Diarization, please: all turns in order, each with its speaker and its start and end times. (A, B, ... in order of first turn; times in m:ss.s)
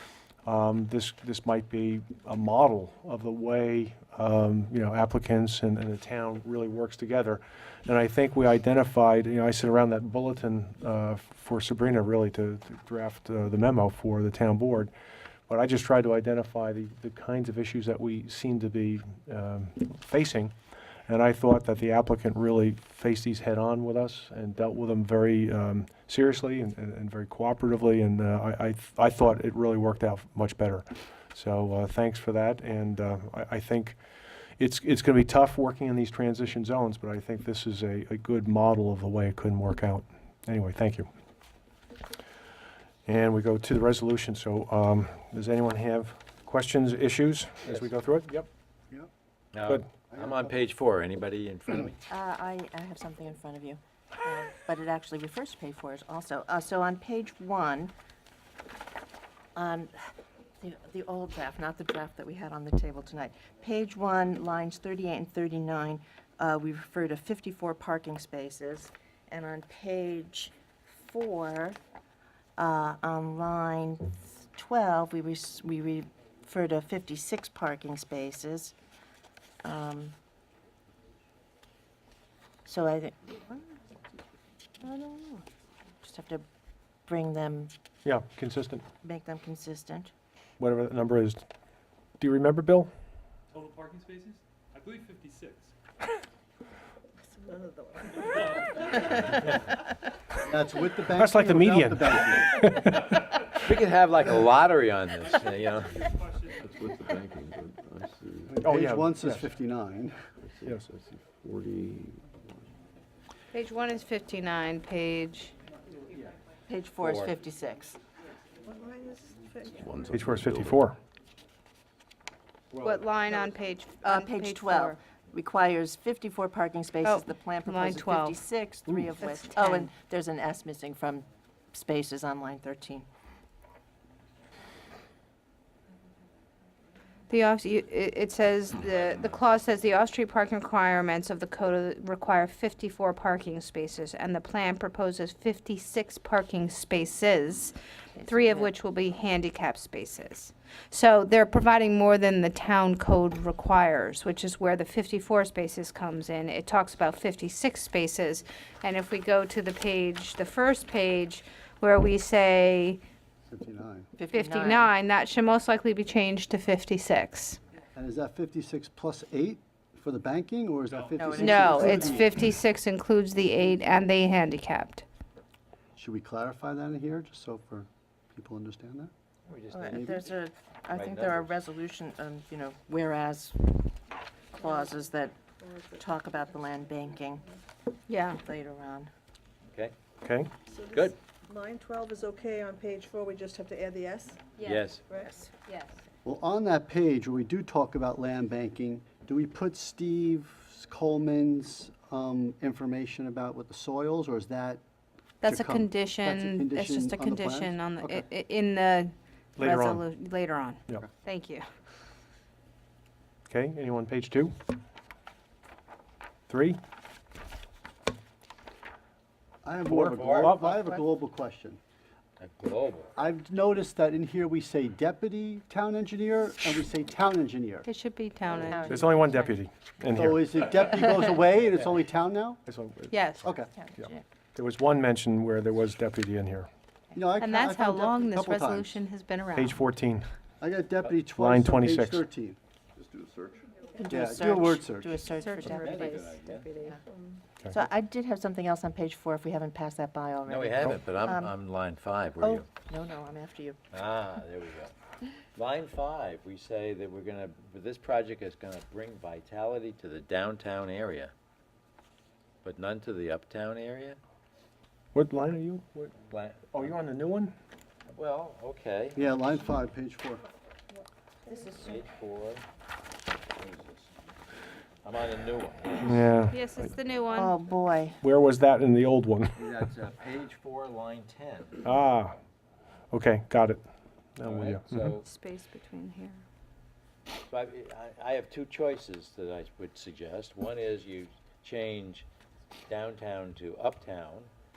0:00.4-0:14.9 A
0:15.5-0:20.5 A
0:21.1-0:34.0 A
0:34.6-0:41.1 A
0:43.1-0:48.4 A
0:49.5-0:52.0 B
0:50.1-0:50.6 C
0:52.1-0:57.9 D
0:59.6-1:11.8 D
1:12.6-1:18.8 D
1:19.6-1:20.2 D
1:22.7-1:23.3 D
1:24.8-1:25.4 E
1:26.0-1:26.5 D
1:27.1-1:27.7 D
1:28.0-1:28.9 A
1:29.0-1:30.1 D
1:30.6-1:31.4 A
1:32.2-1:32.9 A
1:33.5-1:35.7 F
1:37.3-1:38.8 G
1:38.3-1:39.3 F
1:40.4-1:42.7 C
1:41.1-1:43.2 A
1:43.6-1:46.1 B
1:46.0-1:46.5 F
1:46.6-1:48.5 H
1:48.5-1:50.3 C
1:48.6-1:49.5 A
1:50.5-1:52.3 H
1:53.5-1:55.5 E
1:56.7-1:58.0 D
1:57.0-1:57.4 B
1:58.6-2:00.0 G
1:59.8-2:00.8 H
2:00.1-2:01.0 A
2:02.8-2:05.0 E
2:04.0-2:13.1 D
2:07.0-2:08.4 E
2:09.2-2:09.9 E
2:17.3-2:43.0 E
2:28.2-2:28.8 D
2:43.5-2:44.1 C
2:44.2-2:44.9 D
2:44.3-2:47.6 E
2:48.0-2:52.3 C
2:51.2-2:52.4 D
2:51.4-2:55.0 E
2:56.0-2:59.1 C
2:59.5-3:00.4 B
2:59.7-3:04.0 D
2:59.9-3:00.2 C
3:00.9-3:01.6 B
3:04.6-3:05.4 D
3:05.6-3:05.9 G
3:06.0-3:07.5 D
3:08.1-3:08.4 E
3:08.4-3:09.1 D
3:10.2-3:10.5 A
3:10.7-3:15.4 G
3:10.9-3:11.2 B
3:14.6-3:15.1 B
3:16.2-3:24.8 C
3:25.4-3:28.2 C
3:25.4-3:31.6 E
3:29.6-3:30.0 A
3:33.5-3:34.6 A
3:36.5-3:36.8 A
3:39.6-3:41.8 C
3:39.9-3:40.9 A
3:40.0-3:40.6 B
3:42.4-3:43.1 B
3:43.2-3:47.9 C
3:47.9-3:48.9 E
3:48.5-3:49.6 D
3:48.9-3:50.7 A
3:50.1-3:52.6 C
3:52.7-3:53.1 A
3:53.1-3:53.5 E
3:53.4-3:53.7 C
3:53.6-3:54.2 D
3:54.0-3:56.7 A
3:57.2-3:59.0 C
3:57.4-3:59.8 E
3:59.6-4:00.3 A
4:00.6-4:02.6 C
4:01.3-4:02.2 A
4:03.0-4:03.7 H
4:04.0-4:06.2 D
4:04.1-4:05.2 C
4:05.4-4:07.0 E
4:05.8-4:06.7 B
4:07.1-4:07.4 G
4:07.7-4:11.5 D
4:10.5-4:12.7 B
4:12.4-4:13.8 D
4:13.9-4:14.9 B
4:15.6-4:21.3 B
4:22.6-4:24.2 B
4:25.1-4:26.2 A
4:26.3-4:26.9 B
4:26.7-4:27.6 A
4:28.1-4:29.3 B
4:29.2-4:30.4 C
4:31.5-4:32.0 D
4:31.8-4:32.6 B
4:33.6-4:34.1 B
4:35.0-4:36.2 B
4:36.0-4:36.6 A
4:36.5-4:37.6 E
4:37.3-4:38.2 D
4:38.2-4:39.7 A
4:39.6-4:41.8 B
4:41.8-4:42.4 A
4:43.1-4:43.8 A
4:44.4-4:45.1 A
4:44.4-4:45.3 B
4:45.2-4:46.4 E
4:47.5-4:52.3 B
4:52.9-4:54.5 B